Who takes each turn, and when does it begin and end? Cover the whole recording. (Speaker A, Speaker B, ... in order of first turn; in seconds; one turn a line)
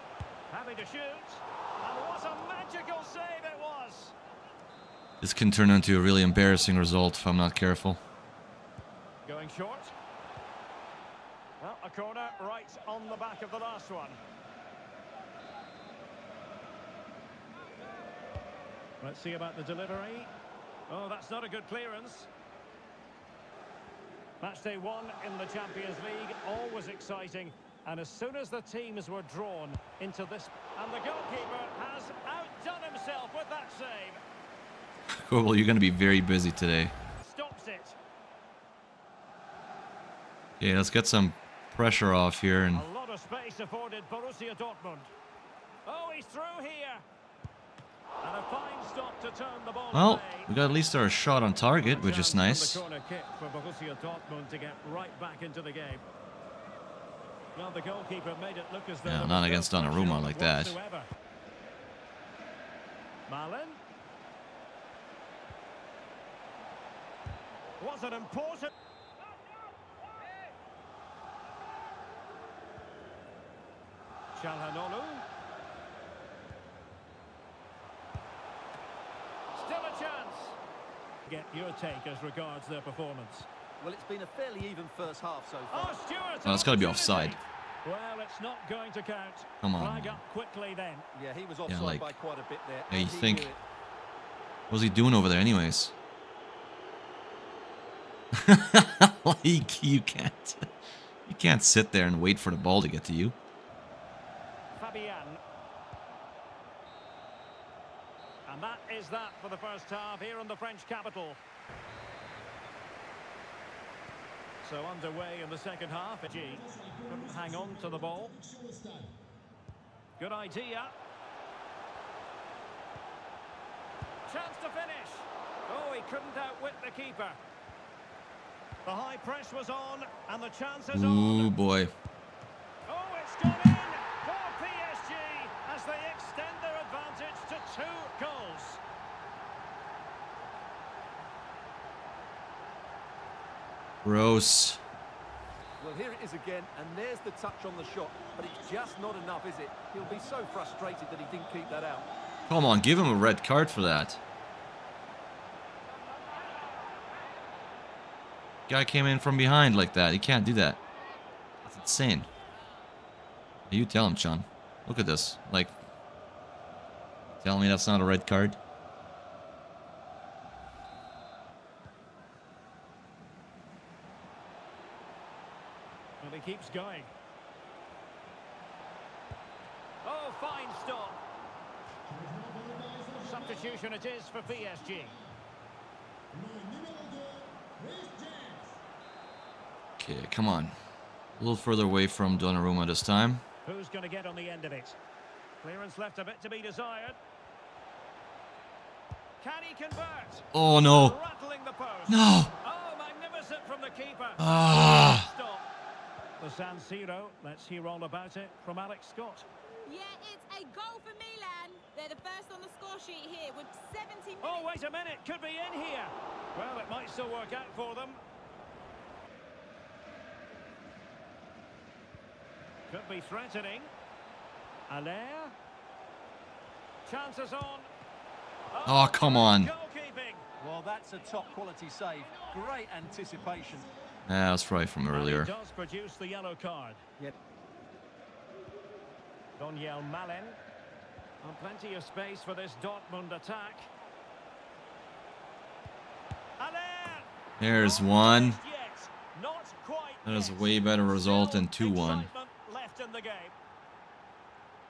Speaker A: 0.5-4.2
Speaker B: 5.2-8.0
Speaker A: 9.2-9.9
Speaker A: 11.6-14.2
Speaker A: 19.0-20.3
Speaker A: 20.9-22.3
Speaker A: 24.4-34.2
Speaker B: 35.1-36.9
Speaker A: 37.2-38.0
Speaker B: 40.6-42.9
Speaker A: 42.7-45.1
Speaker A: 45.9-47.0
Speaker A: 48.2-50.5
Speaker B: 49.9-52.8
Speaker A: 51.8-56.0
Speaker A: 57.5-61.1
Speaker B: 59.0-60.8
Speaker A: 63.3-63.8
Speaker A: 67.8-68.7
Speaker A: 74.3-75.2
Speaker A: 79.5-80.6
Speaker A: 81.2-83.5
Speaker C: 83.8-86.0
Speaker A: 85.7-91.1
Speaker B: 86.4-87.4
Speaker B: 89.6-90.2
Speaker C: 91.1-93.6
Speaker B: 91.7-92.1
Speaker B: 92.9-93.5
Speaker B: 94.7-95.9
Speaker B: 98.3-100.7
Speaker B: 101.3-103.3
Speaker A: 104.7-105.4
Speaker A: 108.5-111.4
Speaker A: 114.6-118.4
Speaker A: 120.2-120.9
Speaker A: 124.3-127.4
Speaker A: 128.8-131.5
Speaker B: 130.9-131.9
Speaker A: 132.9-138.8
Speaker B: 144.0-144.8
Speaker C: 145.8-152.1
Speaker B: 152.5-154.2
Speaker B: 158.7-160.8
Speaker B: 161.6-162.3
Speaker B: 163.7-165.7
Speaker B: 167.4-168.6
Speaker A: 176.2-177.1
Speaker A: 180.0-181.2
Speaker A: 183.1-185.2
Speaker B: 190.0-190.7
Speaker B: 191.4-193.4
Speaker A: 193.6-195.0
Speaker A: 195.6-197.2
Speaker A: 199.4-205.7
Speaker B: 200.5-201.2
Speaker B: 202.1-202.5
Speaker B: 204.4-205.3
Speaker A: 206.4-209.4
Speaker D: 209.8-214.7
Speaker A: 214.4-218.2
Speaker A: 222.9-223.9
Speaker A: 224.9-225.5
Speaker A: 227.0-227.9
Speaker A: 228.7-230.4
Speaker B: 228.8-229.7
Speaker C: 230.6-233.9
Speaker B: 234.3-235.5
Speaker A: 235.1-237.0
Speaker A: 239.6-240.6
Speaker A: 241.4-243.9
Speaker A: 246.6-253.5
Speaker B: 247.6-248.6
Speaker B: 250.2-252.3